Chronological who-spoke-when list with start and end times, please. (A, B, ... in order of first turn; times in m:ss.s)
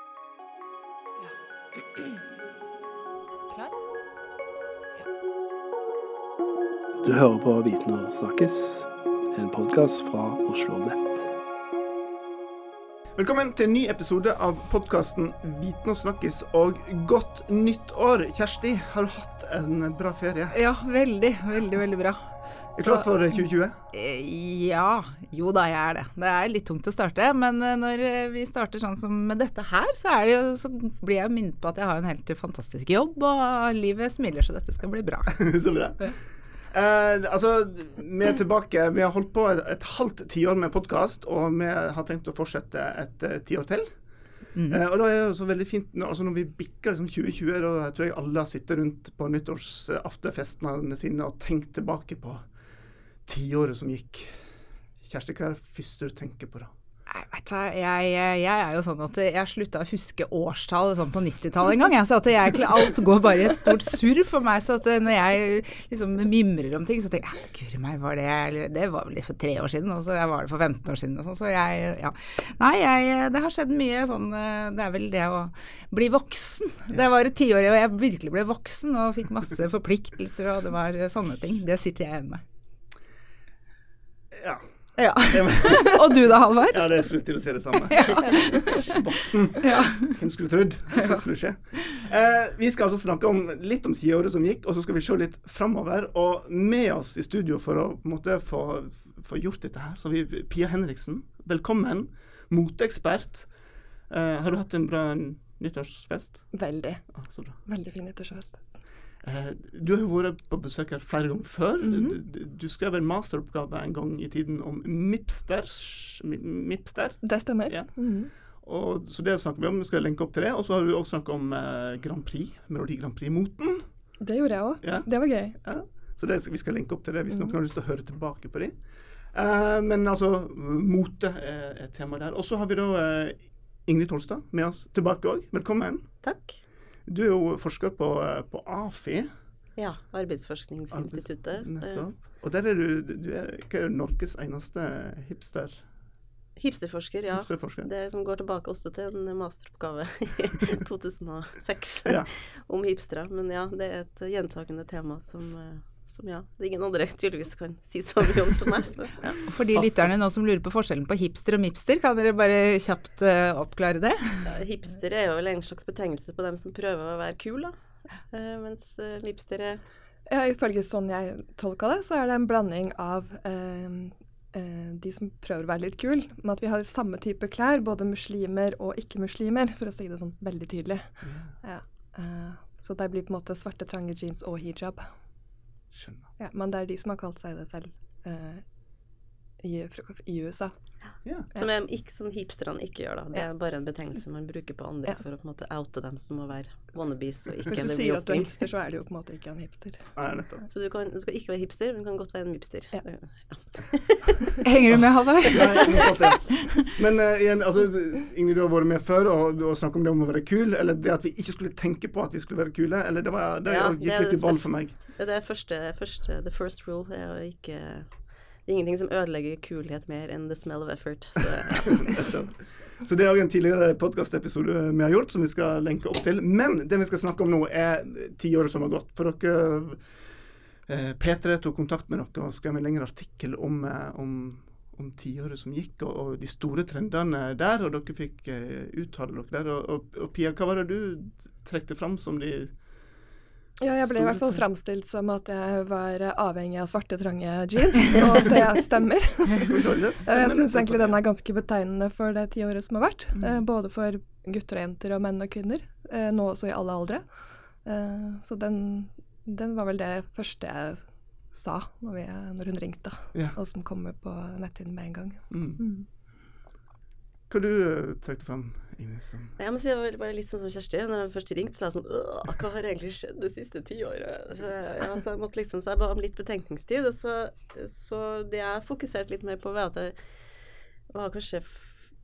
0:07.0-0:11.2 A
0:13.2-0:20.6 B
0:20.5-0:23.1 C
0:22.8-0:23.8 B
0:23.9-0:36.1 C
0:35.4-0:44.0 B
0:44.5-0:44.8 C
0:44.7-0:52.5 B
0:53.2-0:54.4 B
0:55.0-0:56.7 B
0:57.1-1:22.4 C
1:24.3-1:24.6 B
1:25.0-1:26.9 C
1:25.2-1:43.5 B
1:27.8-1:29.0 C
1:29.6-1:30.2 C
1:31.0-1:31.2 C
1:44.1-1:46.6 B
1:46.5-1:48.6 D
1:47.1-1:47.6 B
1:49.2-2:04.0 B
1:51.8-1:52.2 D
1:57.2-1:58.3 D
2:04.2-2:05.6 D
2:04.8-2:16.2 B
2:16.2-2:16.6 E
2:17.1-2:19.3 B
2:19.8-2:22.1 E
2:20.9-2:25.8 B
2:26.6-2:39.4 E
2:27.3-2:27.9 B
2:39.5-2:44.5 C
2:39.7-2:40.1 B
2:44.4-2:47.8 E
2:48.3-2:49.8 E
2:50.3-3:05.1 D
3:01.2-3:01.6 B
3:05.9-3:06.3 B
3:06.4-3:08.6 D
3:09.6-3:10.7 D
3:11.2-3:11.5 B
3:11.6-3:18.7 E
3:17.7-3:20.1 D
3:20.2-3:20.7 B
3:20.7-3:24.6 E
3:24.6-3:25.9 C
3:25.0-3:34.9 B
3:33.7-3:42.3 E
3:42.1-3:50.0 B
3:50.9-4:02.8 B
4:03.8-4:17.2 D
4:04.0-4:04.6 B
4:09.6-4:11.2 B
4:17.8-4:26.1 D
4:25.5-4:25.8 B
4:27.5-4:29.5 B
4:29.6-4:40.2 E
4:41.1-4:41.9 E